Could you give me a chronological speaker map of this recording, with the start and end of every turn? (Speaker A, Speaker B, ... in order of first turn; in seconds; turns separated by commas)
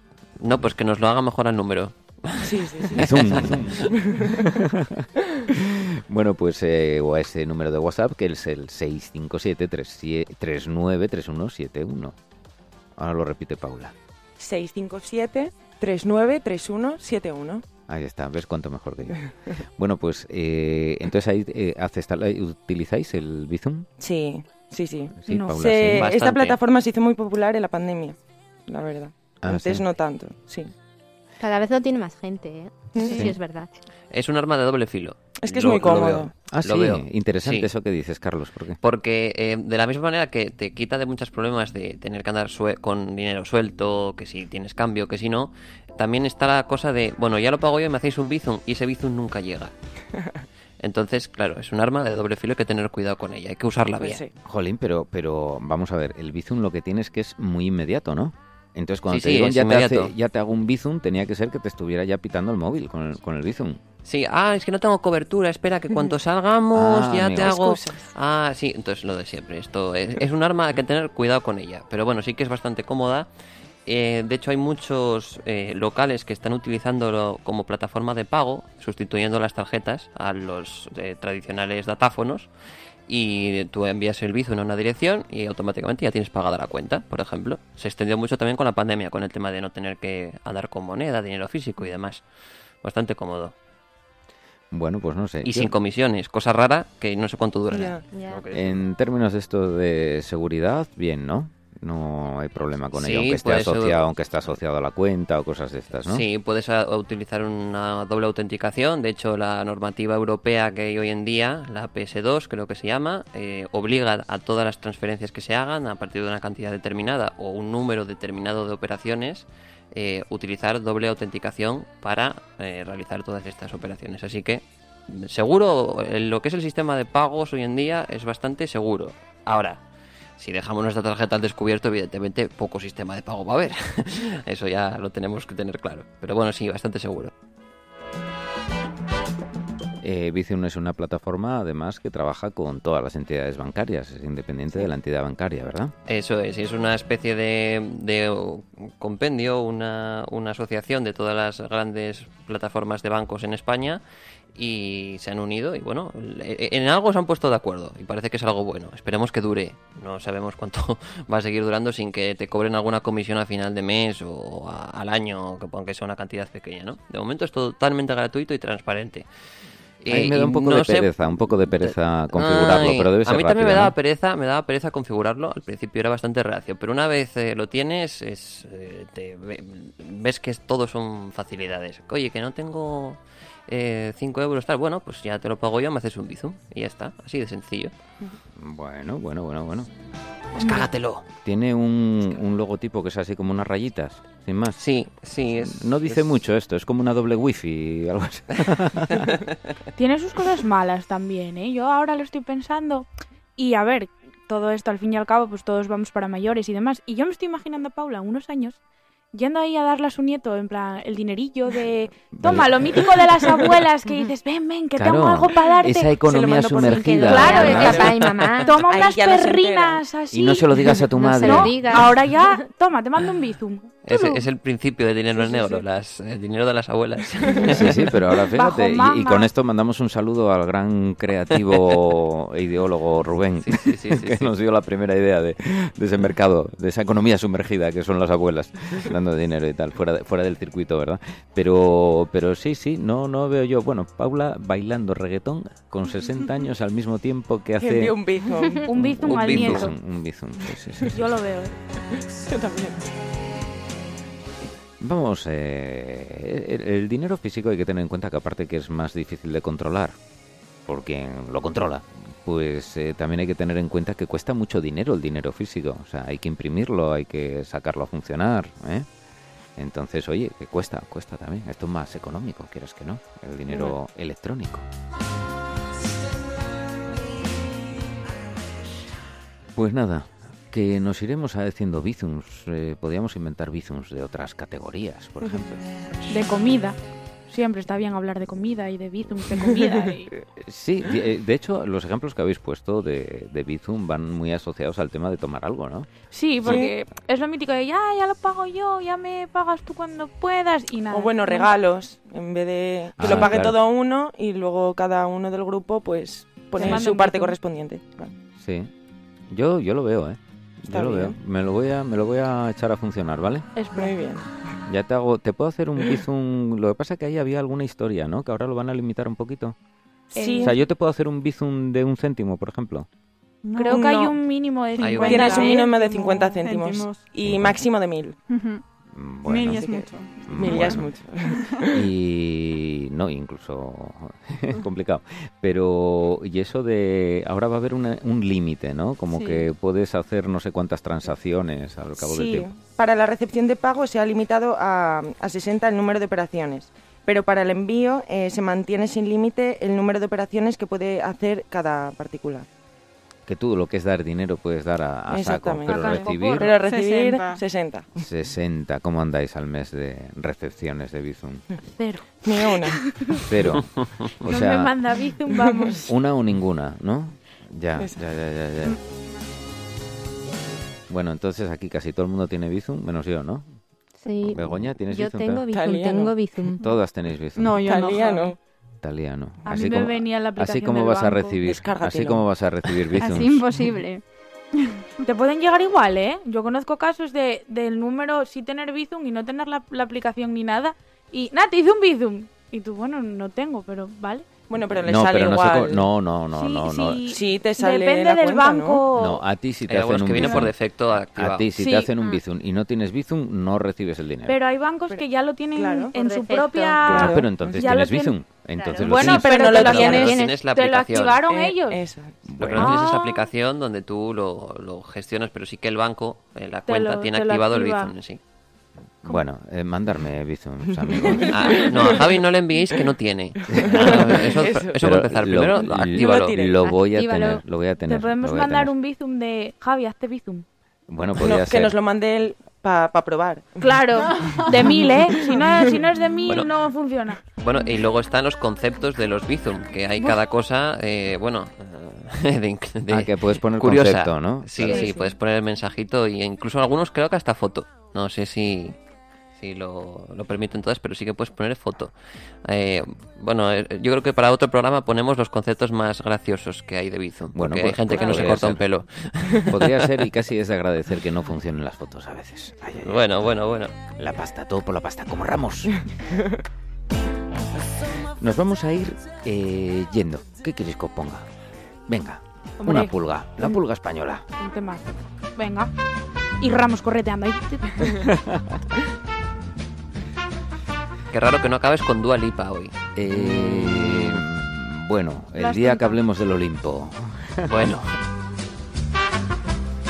Speaker A: 0.4-4.0, Speaker B: 2.4-3.1, Speaker C: 2.9-12.2, Speaker B: 3.8-4.6, Speaker C: 13.0-13.9, Speaker B: 14.4-17.6, Speaker C: 17.9-23.9, Speaker B: 24.0-30.7, Speaker C: 25.2-26.1, Speaker D: 25.3-25.6, Speaker A: 25.9-26.6, Speaker C: 29.4-29.9, Speaker E: 31.4-33.7, Speaker B: 32.9-33.3, Speaker A: 34.1-37.7, Speaker B: 35.4-36.3, Speaker C: 36.5-38.8, Speaker A: 38.8-49.7, Speaker A: 50.8-54.2, Speaker B: 54.0-54.3, Speaker C: 54.4-63.8, Speaker A: 59.1-60.1, Speaker A: 64.0-73.3, Speaker C: 66.7-67.6, Speaker B: 67.3-68.0, Speaker A: 73.8-82.5, Speaker A: 83.1-92.2, Speaker A: 92.8-93.5, Speaker C: 94.7-95.7, Speaker A: 95.4-98.8, Speaker B: 97.7-98.0, Speaker E: 98.1-98.4, Speaker C: 98.5-106.2, Speaker A: 102.9-104.1, Speaker A: 106.0-129.8, Speaker A: 130.4-137.3, Speaker C: 140.0-145.9, Speaker A: 146.1-154.0, Speaker A: 154.5-169.3, Speaker A: 170.0-187.9, Speaker C: 170.1-173.9, Speaker C: 188.6-189.9, Speaker A: 190.5-191.3, Speaker D: 190.6-190.8, Speaker C: 191.4-194.8, Speaker A: 194.8-196.3, Speaker C: 195.6-199.4, Speaker A: 199.2-199.5, Speaker D: 199.9-208.8, Speaker D: 209.3-216.2, Speaker C: 212.4-213.6, Speaker C: 215.0-218.0, Speaker B: 216.2-218.2, Speaker D: 216.8-218.1, Speaker E: 217.2-218.8, Speaker A: 218.1-218.6, Speaker D: 218.6-224.4, Speaker B: 218.8-220.0, Speaker C: 220.3-222.0, Speaker E: 221.1-222.2, Speaker A: 224.1-228.2, Speaker C: 227.7-248.2, Speaker D: 228.5-229.5, Speaker A: 231.5-232.0, Speaker A: 233.6-234.5, Speaker B: 247.8-248.9, Speaker D: 248.8-249.9, Speaker C: 248.9-251.2, Speaker A: 249.2-249.9, Speaker D: 251.1-251.8, Speaker B: 252.1-253.0, Speaker C: 255.0-260.2, Speaker C: 260.9-269.1, Speaker C: 269.8-274.9, Speaker C: 279.7-285.8, Speaker D: 286.3-290.3, Speaker C: 290.3-296.1, Speaker D: 296.3-301.7, Speaker B: 296.6-296.9, Speaker B: 301.1-308.3, Speaker C: 303.2-303.8, Speaker D: 306.8-307.6, Speaker C: 308.6-308.9, Speaker C: 309.5-313.6, Speaker B: 310.9-311.4, Speaker D: 313.8-314.1, Speaker B: 313.9-314.5, Speaker C: 314.9-319.8, Speaker D: 320.3-320.8, Speaker B: 320.3-320.8, Speaker C: 320.6-323.1, Speaker F: 323.6-324.2, Speaker D: 323.8-326.2, Speaker B: 323.8-324.4, Speaker F: 324.9-327.2, Speaker A: 325.0-325.5, Speaker B: 325.2-328.4, Speaker C: 327.4-327.8, Speaker F: 328.5-328.8, Speaker C: 329.1-329.9, Speaker F: 329.4-331.9, Speaker B: 329.7-332.1, Speaker C: 330.4-331.1, Speaker C: 331.9-342.7, Speaker F: 339.3-339.7, Speaker B: 342.2-352.6, Speaker C: 353.5-356.8, Speaker B: 355.3-358.1, Speaker F: 355.9-357.6, Speaker C: 358.2-361.6, Speaker D: 362.0-363.5, Speaker B: 362.4-363.0, Speaker C: 363.4-365.1, Speaker D: 364.4-366.1, Speaker B: 365.5-366.0, Speaker C: 366.1-369.0, Speaker C: 371.1-373.7, Speaker E: 374.2-376.9, Speaker C: 374.5-375.6, Speaker B: 375.7-376.4, Speaker C: 376.8-377.8, Speaker F: 377.5-378.5, Speaker B: 377.8-378.6, Speaker C: 379.0-383.7, Speaker D: 379.6-381.6, Speaker B: 381.6-382.4, Speaker F: 383.1-384.2, Speaker D: 385.2-394.5, Speaker B: 394.7-396.1, Speaker C: 395.0-397.3, Speaker D: 396.5-399.4, Speaker B: 397.3-399.0, Speaker C: 399.1-400.7, Speaker A: 399.9-401.7, Speaker D: 400.4-400.6, Speaker C: 401.4-404.6, Speaker D: 401.8-402.1, Speaker D: 404.4-408.4, Speaker B: 405.8-406.1, Speaker E: 406.1-407.2, Speaker B: 407.0-407.9, Speaker C: 407.0-410.2, Speaker E: 408.8-410.6, Speaker D: 409.0-412.0, Speaker B: 409.1-410.4, Speaker A: 409.8-411.4, Speaker B: 411.4-412.4, Speaker C: 412.5-413.0, Speaker A: 412.6-418.4, Speaker D: 412.8-413.5, Speaker D: 416.9-418.1, Speaker C: 419.2-422.1, Speaker B: 421.1-422.1, Speaker A: 421.4-426.6, Speaker B: 423.7-425.0, Speaker C: 423.8-424.3, Speaker C: 425.0-428.9, Speaker B: 425.9-426.9, Speaker E: 426.8-427.6, Speaker D: 428.1-430.6, Speaker C: 431.1-431.9, Speaker B: 431.4-434.4, Speaker D: 433.8-437.4, Speaker F: 434.3-435.6, Speaker A: 437.5-449.0, Speaker C: 443.1-445.1, Speaker A: 449.5-460.2, Speaker C: 457.5-458.8, Speaker C: 459.6-463.2, Speaker A: 463.0-463.9, Speaker C: 464.1-465.9, Speaker C: 468.4-471.5, Speaker C: 472.1-474.4, Speaker D: 472.8-473.1, Speaker D: 474.6-475.9, Speaker D: 476.6-478.3, Speaker C: 478.1-478.8, Speaker A: 481.3-482.9, Speaker C: 483.1-488.0, Speaker A: 483.5-484.4, Speaker D: 485.6-486.2, Speaker A: 487.6-488.1